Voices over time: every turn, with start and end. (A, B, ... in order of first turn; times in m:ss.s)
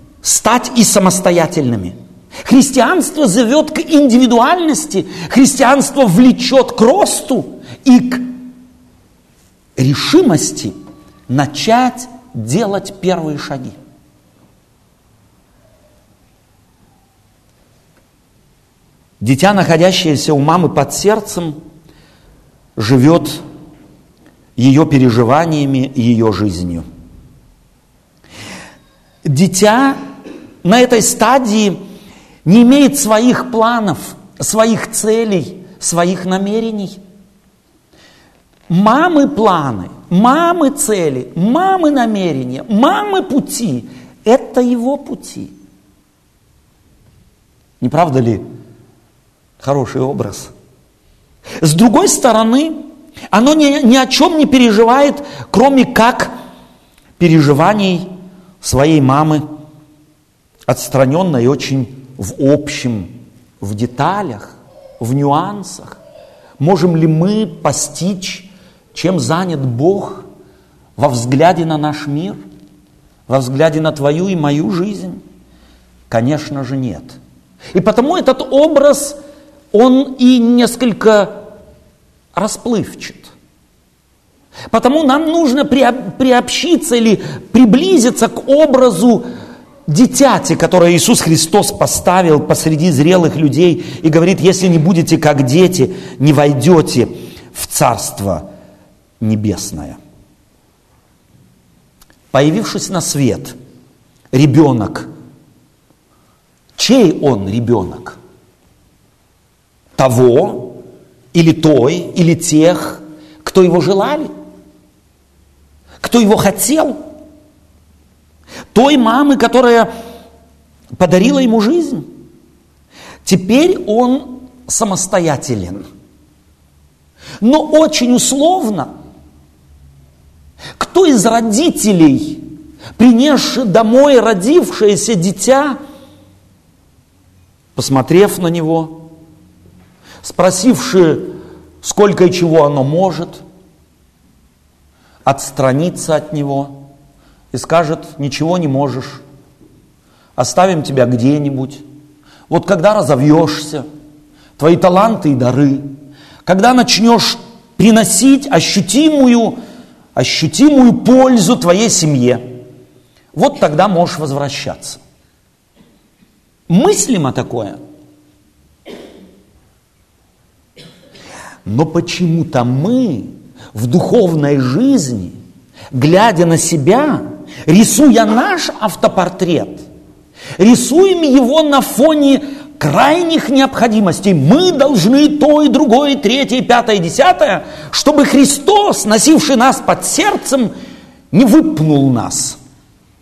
0:00.2-0:08.2 A
0:09.8-0:10.7 A
0:11.3-0:13.8 A
0:19.2-0:21.6 A
0:22.8-0:23.4 A
0:24.6-0:26.8 A
0:29.2-0:30.0 A
0:30.6-0:31.8 A
0:32.4-0:37.0 A
0:38.7-0:45.5 A
0:47.8-0:48.4 A
0:49.6-0:50.5 A
0:51.6-0:56.3 A
0:57.2-0:58.1 A
0:58.6-0:59.4 A
1:00.7-1:06.0 A
1:06.6-1:10.2 A
1:11.0-1:12.4 A
1:13.3-1:15.2 A
1:16.1-1:17.2 A
1:17.7-1:19.2 A
1:19.7-1:21.4 A
1:22.4-1:23.3 A
1:24.7-1:29.2 A
1:29.9-1:38.5 A
1:39.2-1:40.0 A
1:42.3-1:43.5 A
1:44.3-1:45.1 A
1:46.8-1:48.2 A
1:50.0-1:50.8 A
1:51.3-1:54.3 A
1:56.0-1:57.0 A
1:58.7-1:59.9 A
2:00.9-2:02.1 A
2:03.2-2:05.9 A
2:07.4-2:08.9 A
2:10.8-2:12.4 A
2:13.0-2:15.8 A
2:17.8-2:19.1 A
2:20.2-2:23.4 A
2:25.2-2:26.8 A
2:27.5-2:29.2 A
2:30.4-2:31.8 A
2:32.5-2:33.9 A
2:34.6-2:35.9 A
2:36.4-2:39.6 A
2:40.2-2:42.4 A
2:43.3-2:45.0 A
2:46.7-2:47.8 A
2:51.6-2:55.4 A
2:55.9-2:59.8 A
3:00.6-3:10.7 A
3:11.3-3:12.6 A